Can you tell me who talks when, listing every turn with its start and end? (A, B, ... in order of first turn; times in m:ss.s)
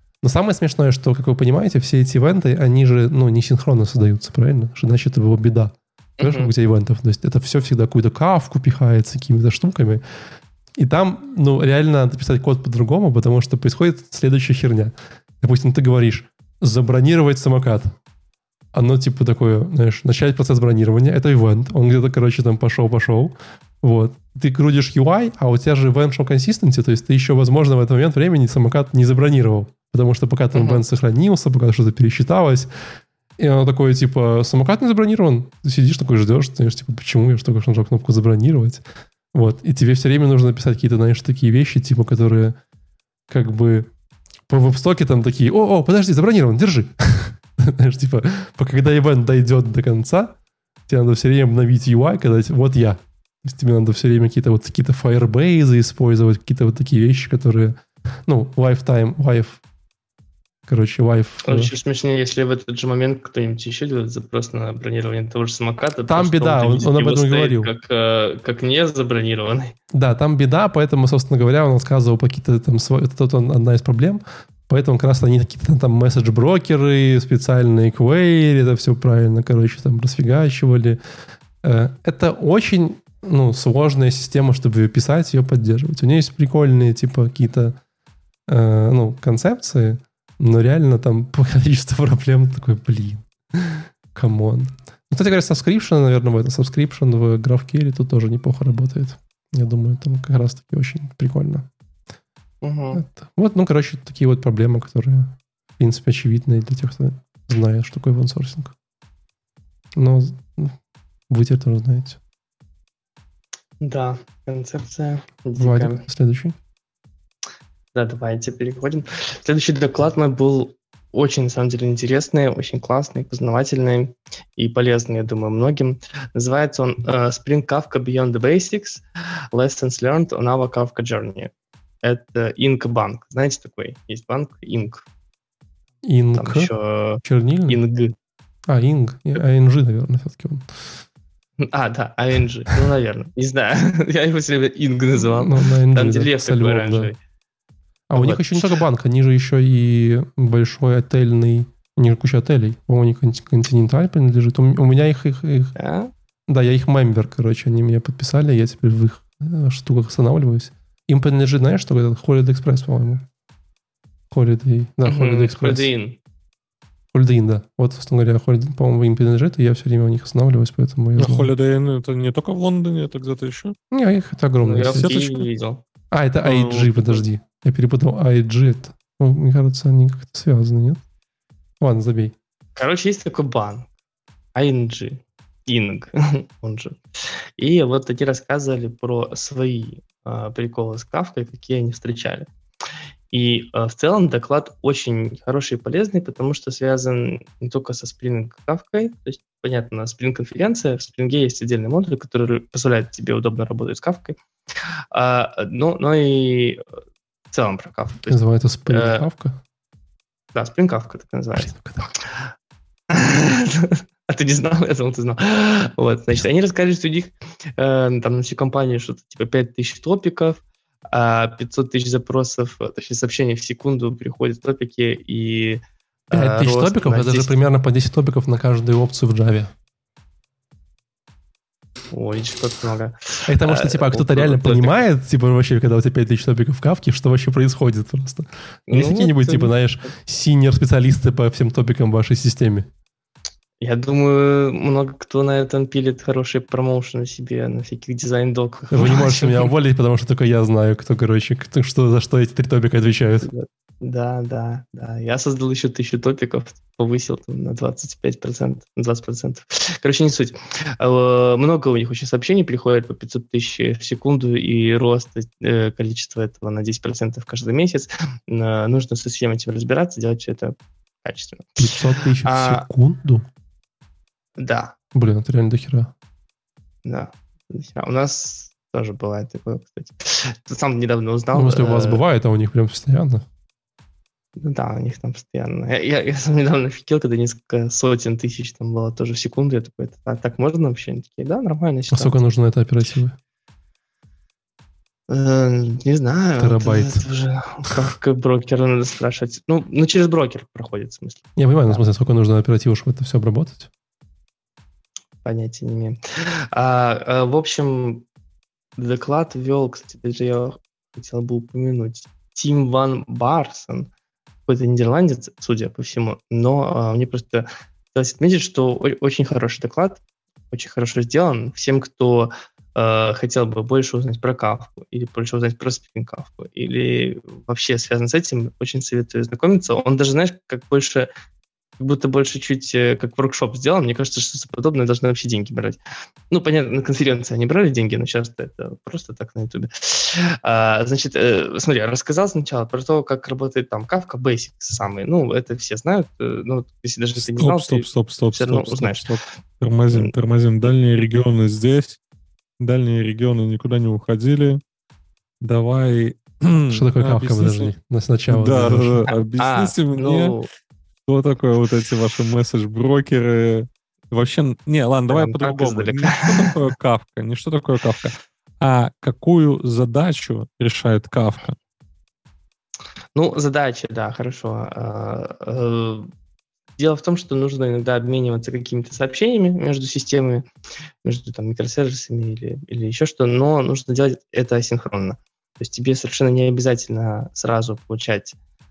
0:00.2-0:10.0 A
0:06.2-0:06.5 B
0:10.8-0:17.9 A
0:18.7-0:32.7 A
0:30.5-0:30.8 B
0:33.4-0:42.6 A
0:43.3-0:43.9 A
0:44.5-0:50.3 A
0:50.9-0:59.6 A
1:00.7-1:01.7 A
1:01.4-1:09.7 B
1:06.1-1:07.7 A
1:09.9-1:21.0 A
1:21.6-1:27.8 A
1:28.5-1:41.7 A
1:42.6-1:43.0 B
1:42.9-1:48.7 A
1:50.0-1:50.8 A
1:51.3-1:52.2 A
1:53.8-1:56.0 B
1:55.6-1:56.6 A
1:57.9-2:11.5 B
2:12.0-2:15.0 B
2:16.0-2:16.7 A
2:16.4-2:18.1 B
2:17.2-2:17.8 A
2:18.7-2:20.8 A
2:21.6-2:27.2 B
2:25.4-2:27.1 A
2:28.1-2:35.7 A
2:28.2-2:28.8 B
2:35.8-2:36.1 B
2:36.5-2:43.2 A
2:44.3-2:45.9 A
2:45.0-2:46.2 B
2:47.1-2:51.5 A
2:51.2-2:53.8 C
2:53.9-2:55.2 A
2:54.6-2:55.8 B
2:54.9-2:55.4 C
2:56.1-3:01.0 A
2:56.4-2:57.2 C
3:01.8-3:02.3 A
3:02.8-3:03.9 B
3:04.5-3:07.0 B
3:07.6-3:12.5 B
3:13.3-3:24.4 B
3:25.1-3:26.8 B
3:27.5-3:29.3 B
3:28.3-3:29.6 A
3:30.5-3:31.8 B
3:31.6-3:32.1 A
3:33.1-3:47.6 B
3:46.3-3:49.7 A
3:52.1-3:55.0 B
3:53.4-4:02.9 A
3:58.9-3:59.7 B
4:03.8-4:09.7 B
4:08.9-4:13.5 A
4:13.4-4:32.8 B
4:31.8-4:33.4 A
4:34.6-4:34.9 B
4:35.1-4:36.1 A
4:37.0-4:42.2 B
4:41.5-4:43.4 A
4:44.6-4:52.4 B
4:52.1-4:53.4 A
4:55.3-5:02.0 B
4:56.6-4:57.2 A
5:01.6-5:03.9 A
5:05.4-5:08.2 B
5:09.0-5:14.1 B
5:14.7-5:20.2 B
5:20.7-5:31.3 B
5:32.0-5:36.0 B
5:36.5-5:49.3 B
5:47.4-5:52.2 C
5:52.8-5:54.8 C
5:55.6-5:57.9 C
5:56.9-5:59.3 A
5:58.5-6:00.5 C
5:59.6-6:00.7 B
6:01.2-6:11.8 C
6:05.3-6:06.7 B
6:13.3-6:16.3 B
6:17.0-6:20.6 B
6:21.2-6:28.6 B